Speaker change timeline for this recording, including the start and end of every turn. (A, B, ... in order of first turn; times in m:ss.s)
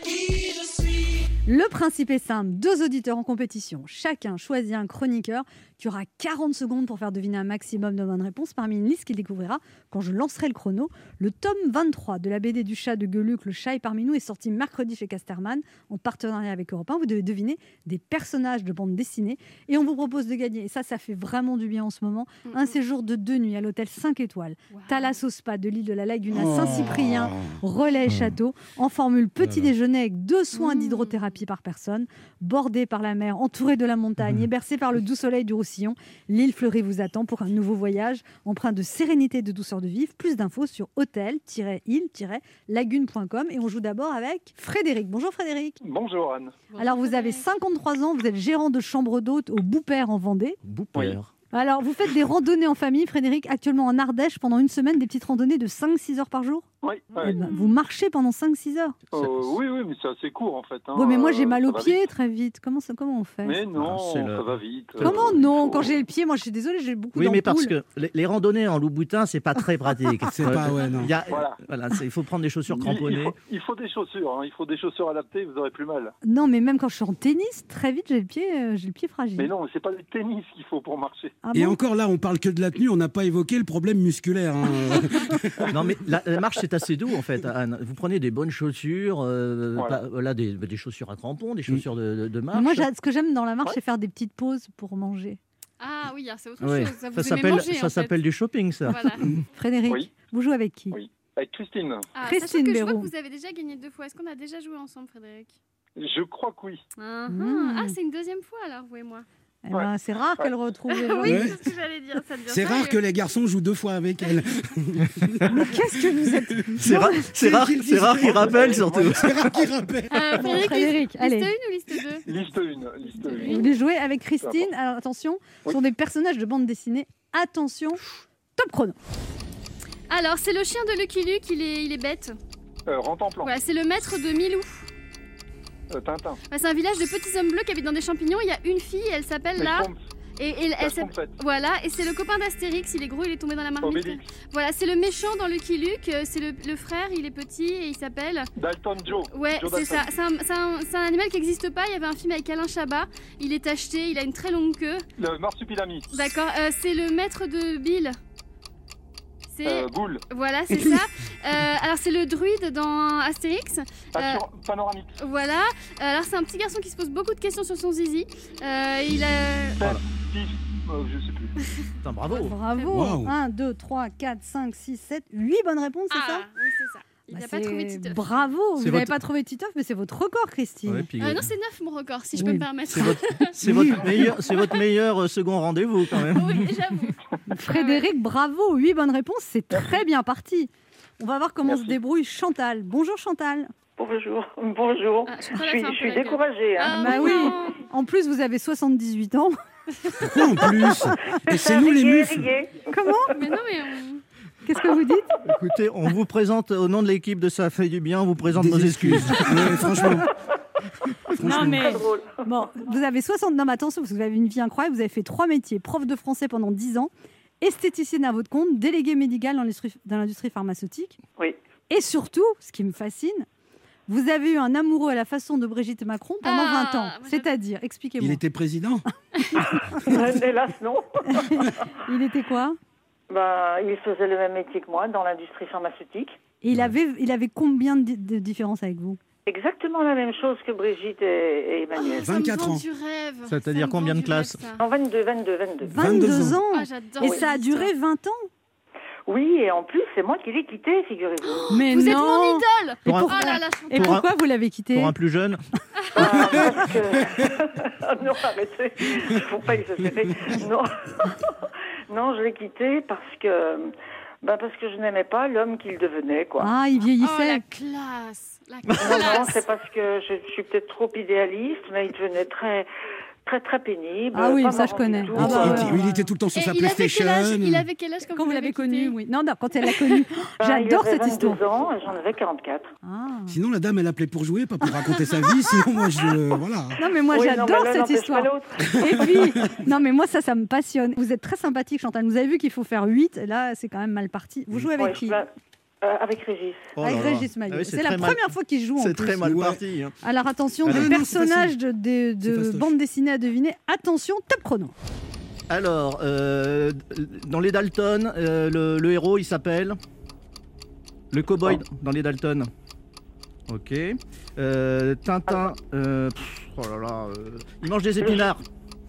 0:01.4-0:45.8 A
0:22.5-0:22.7 B
0:24.7-0:25.2 B
0:26.3-0:28.4 C
0:29.4-0:29.7 C
0:30.5-0:31.4 B
0:45.8-0:46.6 D
0:46.7-0:47.5 B
0:46.8-0:50.6 A
0:50.6-0:51.3 E
0:51.5-0:56.6 A
0:56.8-0:57.4 D
0:57.2-0:57.8 B
0:57.2-0:59.0 A
0:59.1-0:59.6 E
0:59.1-1:02.0 D
1:00.9-1:03.6 A
1:03.4-1:05.9 D
1:03.8-1:05.4 E
1:05.0-1:07.7 A
1:07.1-1:13.4 E
1:10.3-1:11.1 C
1:11.2-1:11.6 D
1:12.7-1:16.1 D
1:16.2-1:19.5 A
1:19.4-1:21.3 D
1:21.4-1:21.8 A
1:21.5-1:25.7 C
1:25.7-1:32.9 E
1:32.5-1:35.4 A
1:35.8-1:38.2 B
1:36.6-1:39.0 E
1:38.8-1:39.3 B
1:39.5-1:41.0 A
1:40.9-1:42.1 D
1:42.2-1:45.6 B
1:42.2-1:43.1 A
1:46.0-1:46.8 D
1:47.0-1:49.2 B
1:47.3-1:47.9 A
1:49.6-1:51.5 A
1:49.7-1:50.5 D
1:51.1-1:53.0 B
1:51.2-1:51.6 C
1:52.5-1:55.8 C
1:55.5-1:57.3 A
1:56.8-1:59.5 E
1:56.8-2:00.4 C
1:58.3-1:59.2 D
2:00.1-2:02.4 B
2:00.4-2:01.5 A
2:02.2-2:03.7 D
2:03.1-2:03.7 B
2:03.4-2:08.0 A
2:04.4-2:04.7 D
2:08.6-2:09.0 A
2:10.1-2:12.4 B
2:12.9-2:13.5 D
2:13.4-2:14.9 B
2:15.9-2:16.4 D
2:16.5-2:28.5 B
2:19.6-2:20.0 D
2:20.8-2:21.4 D
2:23.8-2:24.2 D
2:28.6-2:30.1 D
2:29.3-2:35.0 B
2:35.2-2:36.1 D
2:36.1-2:38.2 B
2:39.5-2:44.4 B
2:39.6-2:40.2 D
2:44.1-2:45.1 D
2:45.2-2:49.9 B
2:49.8-2:51.6 D
2:52.0-2:52.6 E
2:52.3-2:56.5 A
2:52.7-2:53.1 B
2:52.9-2:53.3 C
2:56.1-2:58.5 B
2:57.3-3:01.1 A
2:58.8-2:59.2 E
3:00.8-3:01.5 E
3:01.2-3:03.6 B
3:02.3-3:02.7 A
3:02.9-3:06.7 E
3:03.6-3:04.2 A
3:04.5-3:04.9 B
3:06.2-3:08.1 B
3:07.5-3:13.7 A
3:09.7-3:10.0 D
3:11.6-3:12.0 D
3:14.0-3:17.6 F
3:15.3-3:17.8 B
3:16.9-3:19.5 A
3:20.2-3:22.5 C
3:21.5-3:23.0 F
3:22.9-3:23.3 A
3:23.3-3:24.2 B
3:24.6-3:25.3 A
3:25.4-3:29.8 E
3:28.5-3:30.3 C
3:30.0-3:30.3 F
3:31.4-3:32.0 C
3:31.4-3:37.1 A
3:31.4-3:32.4 F
3:37.6-3:41.2 A
3:41.9-3:43.5 A
3:44.1-3:48.4 A
3:46.4-3:47.5 B
3:48.2-3:49.0 C
3:50.0-3:51.7 F
3:51.3-3:52.8 A
3:53.3-3:56.4 F
3:56.6-3:59.2 A
3:59.5-4:02.3 F
4:02.0-4:04.8 B
4:02.2-4:02.8 C
4:03.5-4:04.6 E
4:04.8-4:06.0 F
4:05.8-4:08.5 A
4:06.0-4:06.6 C
4:06.7-4:07.9 B
4:09.3-4:11.7 F
4:11.4-4:14.2 B
4:11.7-4:15.1 A
4:13.0-4:14.3 E
4:14.9-4:15.6 E
4:16.0-4:16.3 B
4:16.1-4:23.9 F
4:24.4-4:26.7 F
4:26.6-4:27.6 A
4:27.2-4:29.6 B
4:29.0-4:32.9 F
4:33.4-4:36.3 F
4:34.3-4:36.0 A
4:35.3-4:37.9 C
4:36.5-4:39.2 B
4:38.3-4:41.6 A
4:40.6-4:42.9 F
4:43.0-4:43.5 A
4:43.5-4:47.0 C
4:47.0-4:55.4 A
4:47.3-4:49.0 F
4:54.9-4:55.5 F
4:56.0-4:56.9 F
4:57.0-4:58.4 E
4:57.0-4:59.4 A
4:59.0-5:00.1 E
4:59.4-4:59.8 C
5:00.2-5:04.9 A
5:00.8-5:01.1 E
5:00.9-5:01.7 C
5:02.4-5:02.9 C
5:05.7-5:10.0 E
5:11.3-5:12.7 E
5:13.7-5:18.6 E
5:18.2-5:18.5 F